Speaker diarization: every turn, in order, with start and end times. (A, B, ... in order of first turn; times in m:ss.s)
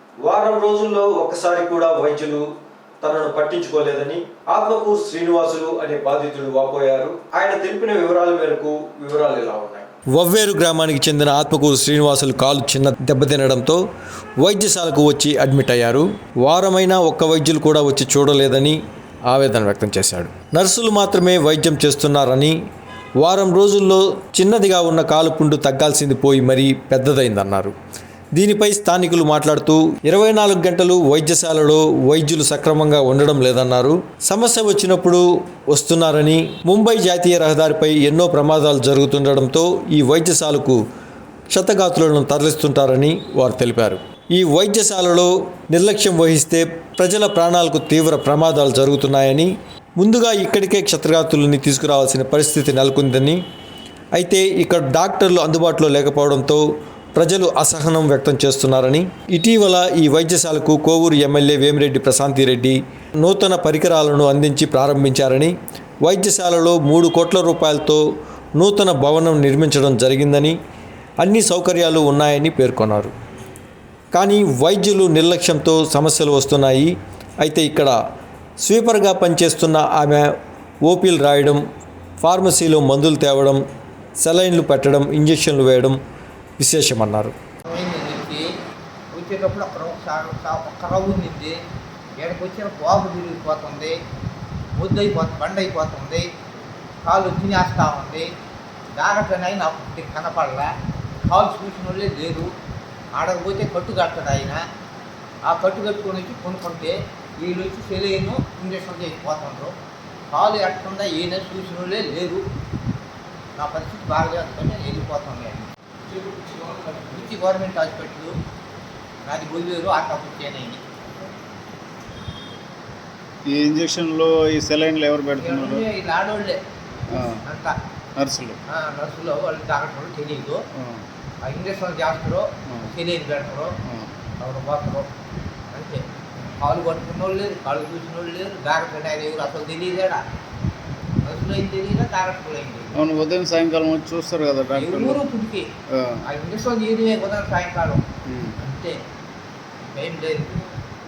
0:00.2-0:02.5 A
0:03.0-0:13.8 A
0:14.4-0:18.8 A
0:19.3-0:22.6 A
0:23.2-0:27.7 A
0:28.3-0:40.8 A
0:41.5-0:53.4 A
0:54.1-0:56.6 A
0:57.2-1:08.0 A
1:08.6-1:10.6 A
1:11.2-1:13.1 A
1:14.1-1:18.0 A
1:18.6-1:20.3 A
1:20.8-1:21.6 A
1:22.2-1:23.6 A
1:24.2-1:26.0 A
1:26.6-1:27.3 A
1:27.6-1:28.5 B
1:29.1-1:31.6 B
1:32.2-1:34.0 B
1:34.8-1:36.3 B
1:37.0-1:38.3 B
1:38.9-1:42.5 B
1:43.1-1:44.6 B
1:45.4-1:49.7 B
1:50.3-1:52.4 B
1:53.6-1:58.4 B
1:59.2-2:00.8 B
2:03.4-2:05.8 C
2:05.4-2:06.6 B
2:07.1-2:07.4 C
2:07.3-2:07.7 B
2:08.2-2:08.6 C
2:08.7-2:10.6 B
2:10.7-2:11.0 C
2:11.4-2:13.7 B
2:13.8-2:14.1 C
2:14.4-2:15.1 B
2:15.7-2:20.2 B
2:21.2-2:23.0 B
2:22.9-2:25.2 C
2:24.8-2:25.7 B
2:25.9-2:26.2 C
2:26.2-2:28.0 B
2:28.2-2:28.6 C
2:28.6-2:29.0 B
2:29.8-2:30.6 B